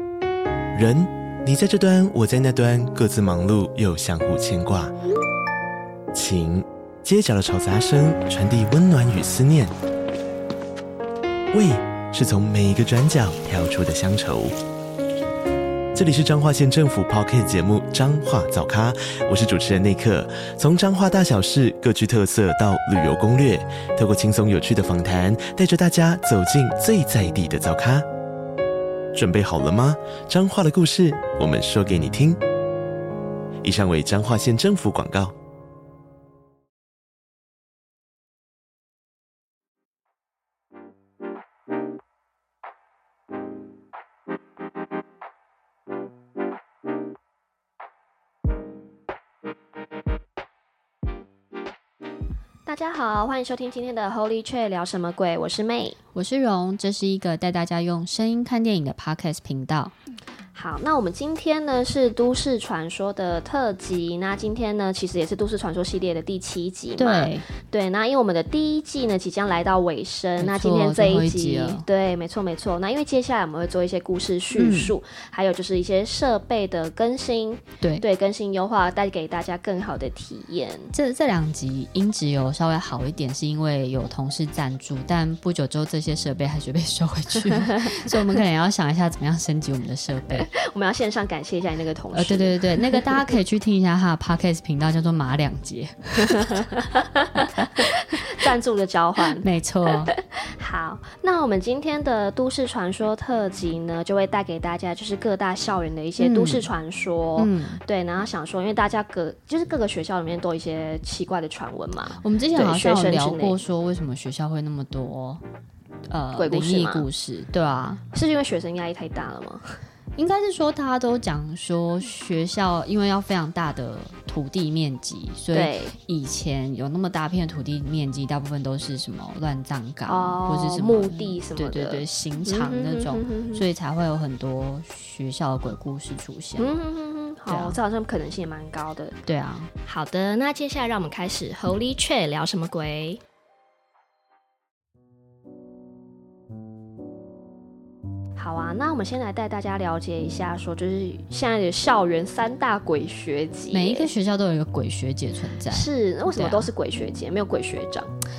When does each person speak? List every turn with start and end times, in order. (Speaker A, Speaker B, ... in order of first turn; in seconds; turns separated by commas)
Speaker A: 0.7-4.9, Speaker A: 6.1-9.7, Speaker A: 11.5-14.5, Speaker A: 15.9-28.1, Speaker A: 29.1-32.4, Speaker A: 33.6-35.3, Speaker B: 52.6-56.0, Speaker C: 56.1-59.9, Speaker B: 60.5-80.9, Speaker C: 67.0-67.4, Speaker C: 70.4-71.8, Speaker C: 74.5-74.9, Speaker C: 77.8-78.0, Speaker C: 80.9-90.5, Speaker B: 90.3-93.2, Speaker C: 92.1-96.8, Speaker B: 96.3-99.5, Speaker C: 97.5-97.9, Speaker C: 99.2-100.1, Speaker B: 100.0-113.6, Speaker C: 106.2-106.7, Speaker C: 107.4-107.8, Speaker C: 112.1-115.4, Speaker C: 116.1-118.0, Speaker B: 116.3-117.0, Speaker B: 118.1-119.8, Speaker C: 120.2-136.7, Speaker B: 125.5-125.9, Speaker B: 130.1-133.6, Speaker B: 136.6-139.2, Speaker C: 137.5-137.8, Speaker C: 139.2-139.7, Speaker B: 139.8-143.2, Speaker B: 148.4-154.1, Speaker C: 153.7-156.7, Speaker B: 155.7-158.1